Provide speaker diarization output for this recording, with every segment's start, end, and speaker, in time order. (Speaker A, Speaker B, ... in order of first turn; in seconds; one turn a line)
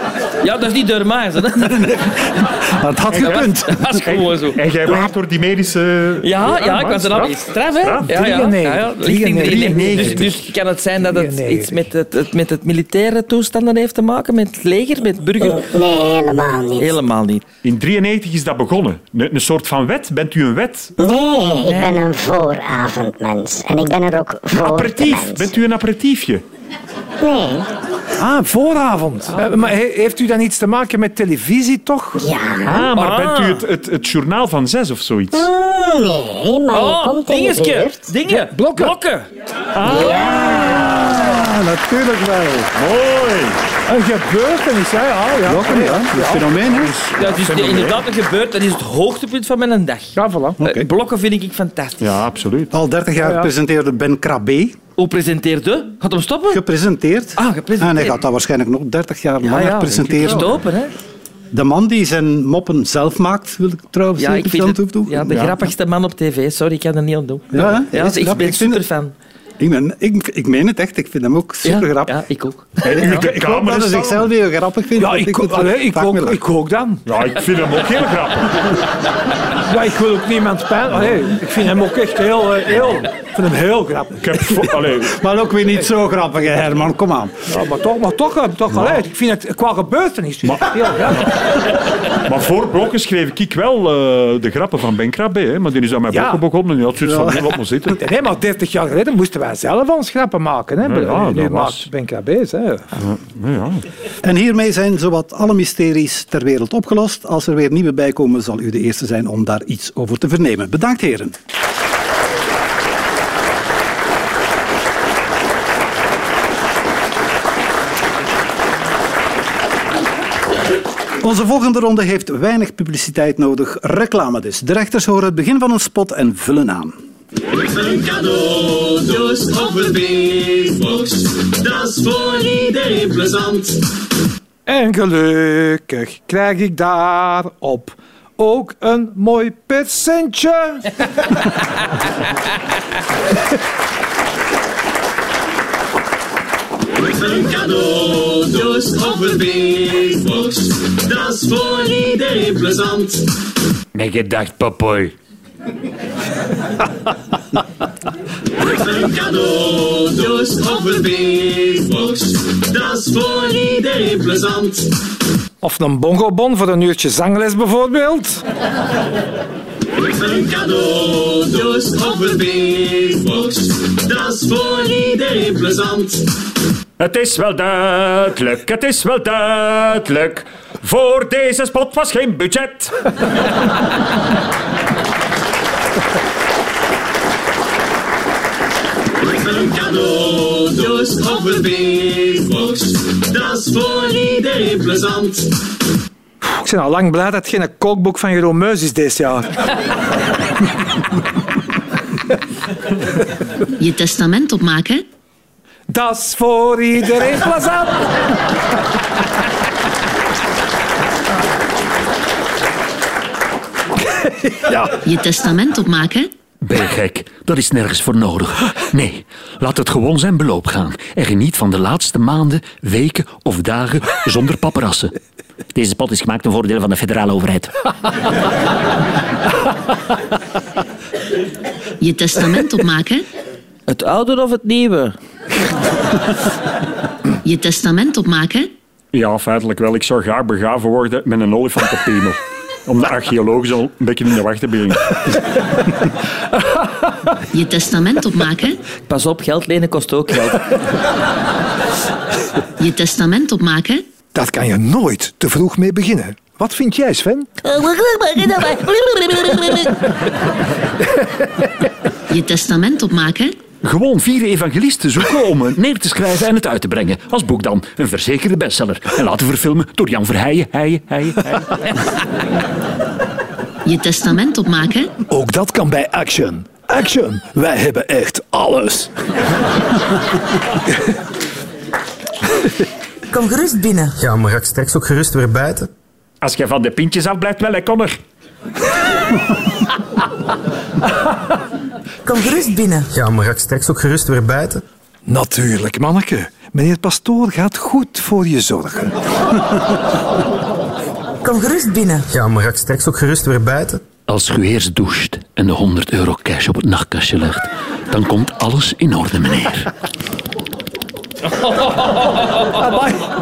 Speaker A: 0.4-2.0
Speaker B: 1.5-4.0
Speaker C: 3.1-3.5
Speaker A: 3.2-4.6
Speaker C: 4.0-8.2
Speaker D: 4.8-5.1
Speaker A: 6.2-15.7
Speaker E: 8.1-10.3
Speaker C: 9.3-10.4
Speaker E: 11.0-11.8
Speaker D: 15.4-17.0
Speaker A: 16.8-17.4
Speaker C: 17.6-20.9
Speaker D: 21.0-25.5
Speaker A: 21.7-22.0
Speaker C: 24.5-26.4
Speaker D: 27.2-27.7
Speaker E: 28.2-32.2
Speaker D: 32.1-32.9
Speaker C: 32.6-35.5
Speaker A: 32.9-33.6
Speaker D: 35.3-38.1
Speaker A: 36.7-39.3
Speaker E: 38.3-39.0
Speaker C: 39.7-41.1
Speaker D: 39.9-41.0
Speaker A: 39.9-40.3
Speaker B: 41.0-42.7
Speaker C: 42.8-43.6
Speaker E: 43.9-46.6
Speaker B: 45.4-47.0
Speaker A: 47.1-52.2
Speaker C: 47.3-47.9
Speaker E: 50.1-50.6
Speaker B: 50.6-50.9
Speaker C: 52.0-52.7
Speaker B: 52.7-54.8
Speaker E: 53.2-53.5
Speaker A: 55.0-56.6
Speaker B: 56.5-60.5
Speaker A: 57.4-58.2
Speaker A: 59.4-60.9
Speaker C: 60.1-60.5
Speaker B: 61.5-65.5
Speaker A: 64.2-69.1
Speaker C: 65.3-65.6
Speaker B: 67.5-68.8
Speaker B: 69.6-72.2
Speaker A: 71.6-72.7
Speaker C: 72.8-74.3
Speaker B: 72.8-76.4
Speaker E: 75.0-77.0
Speaker C: 77.0-78.8
Speaker E: 79.6-84.2
Speaker C: 84.2-85.1
Speaker B: 85.0-87.5
Speaker E: 87.5-91.4
Speaker C: 90.5-91.5
Speaker C: 92.1-98.0
Speaker E: 96.1-96.4
Speaker B: 97.0-97.5
Speaker E: 98.0-103.0
Speaker C: 100.8-101.9
Speaker C: 103.0-103.8
Speaker B: 104.2-111.3
Speaker B: 121.2-126.9
Speaker F: 127.6-133.8
Speaker E: 134.7-140.9
Speaker F: 147.1-153.2
Speaker G: 153.9-154.9
Speaker C: 154.0-155.1
Speaker F: 158.7-164.9
Speaker E: 165.6-168.4
Speaker F: 170.0-176.3
Speaker C: 177.0-182.9
Speaker F: 189.2-195.5
Speaker E: 196.4-199.6
Speaker H: 203.8-205.0
Speaker E: 205.9-208.0
Speaker H: 215.0-216.3
Speaker G: 216.6-225.1
Speaker G: 225.7-227.7
Speaker H: 232.0-233.2
Speaker A: 233.9-235.2
Speaker H: 237.4-238.7
Speaker C: 239.1-245.4
Speaker H: 247.5-248.8
Speaker A: 249.1-250.8
Speaker H: 252.8-254.0
Speaker E: 254.3-257.5
Speaker A: 257.6-260.0
Speaker H: 262.3-263.6
Speaker C: 263.8-265.9
Speaker G: 265.8-271.1
Speaker C: 270.7-271.7
Speaker H: 273.8-275.1
Speaker E: 275.3-279.1
Speaker I: 283.3-284.0
Speaker J: 284.1-285.9
Speaker C: 286.4-288.2
Speaker I: 292.3-293.0
Speaker J: 293.0-294.8
Speaker E: 295.3-299.1
Speaker I: 301.5-302.1
Speaker J: 302.2-304.0
Speaker G: 304.3-309.9
Speaker E: 312.8-313.2